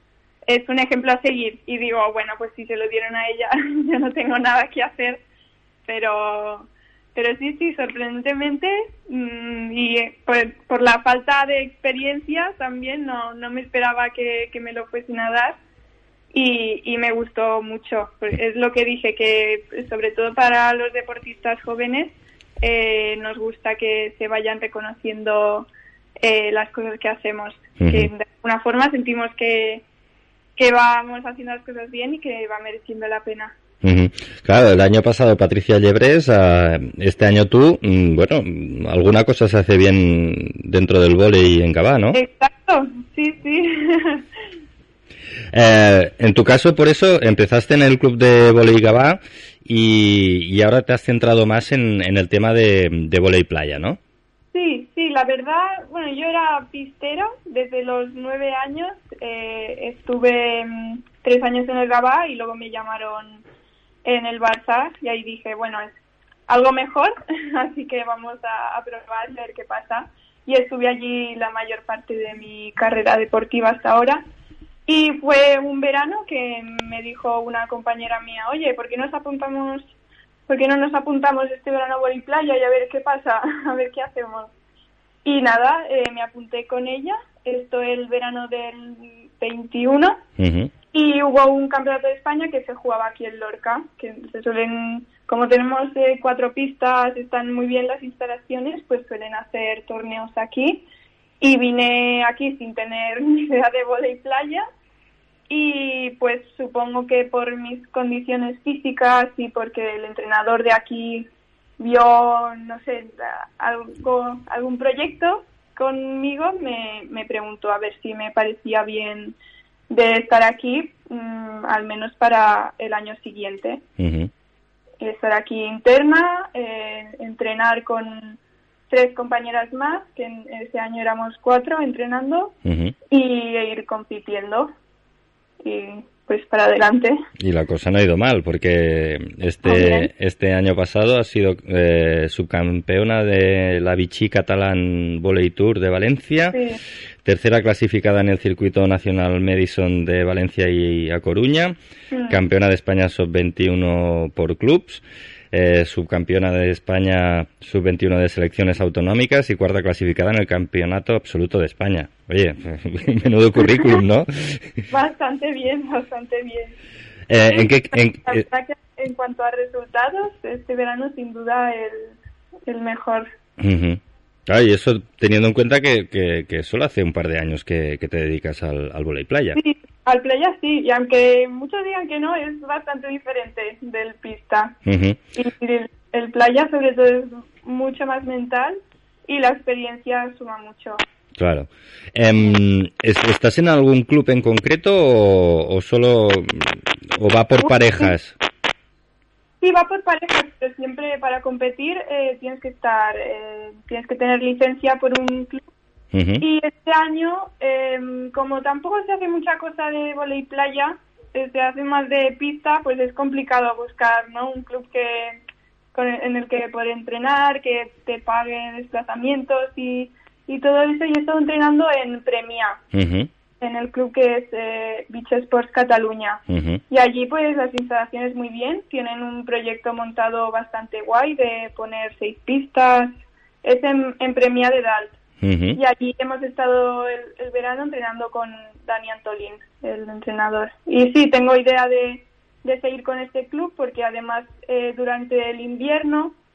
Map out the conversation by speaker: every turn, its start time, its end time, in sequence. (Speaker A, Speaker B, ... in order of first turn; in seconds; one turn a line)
Speaker A: 0.5-5.2
Speaker A: 5.9-15.6
Speaker A: 16.3-29.8
Speaker B: 27.8-28.1
Speaker A: 30.6-33.5
Speaker B: 33.8-42.2
Speaker A: 42.1-44.2
Speaker B: 45.5-54.0
Speaker A: 54.5-63.4
Speaker A: 64.0-65.9
Speaker A: 66.5-74.2
Speaker A: 74.8-79.9
Speaker A: 80.5-84.5
Speaker A: 85.2-90.2
Speaker B: 90.4-90.7
Speaker A: 90.9-100.8
Speaker A: 101.4-104.6
Speaker A: 105.5-119.3
Speaker A: 119.9-123.8
Speaker B: 124.0-124.3
Speaker A: 125.0-128.4
Speaker A: 128.9-132.5
Speaker B: 132.6-132.9
Speaker A: 133.1-134.7
Speaker A: 135.6-137.2
Speaker B: 137.4-146.6
Speaker A: 139.6-140.1
Speaker A: 146.5-146.8
Speaker B: 147.2-151.8
Speaker A: 152.1-152.4
Speaker B: 152.3-164.8
Speaker A: 164.9-166.7
Speaker B: 167.3-168.4
Speaker A: 168.2-173.3
Speaker B: 173.6-179.6
Speaker A: 179.5-184.8
Speaker B: 184.8-185.2
Speaker A: 185.3-191.0
Speaker B: 191.4-198.3
Speaker A: 197.6-198.1
Speaker A: 199.6-205.6
Speaker B: 206.1-206.4
Speaker A: 206.4-215.4
Speaker A: 215.9-222.8
Speaker B: 222.9-223.3
Speaker A: 223.6-235.2
Speaker B: 226.5-226.8
Speaker B: 235.4-235.8
Speaker A: 235.7-246.3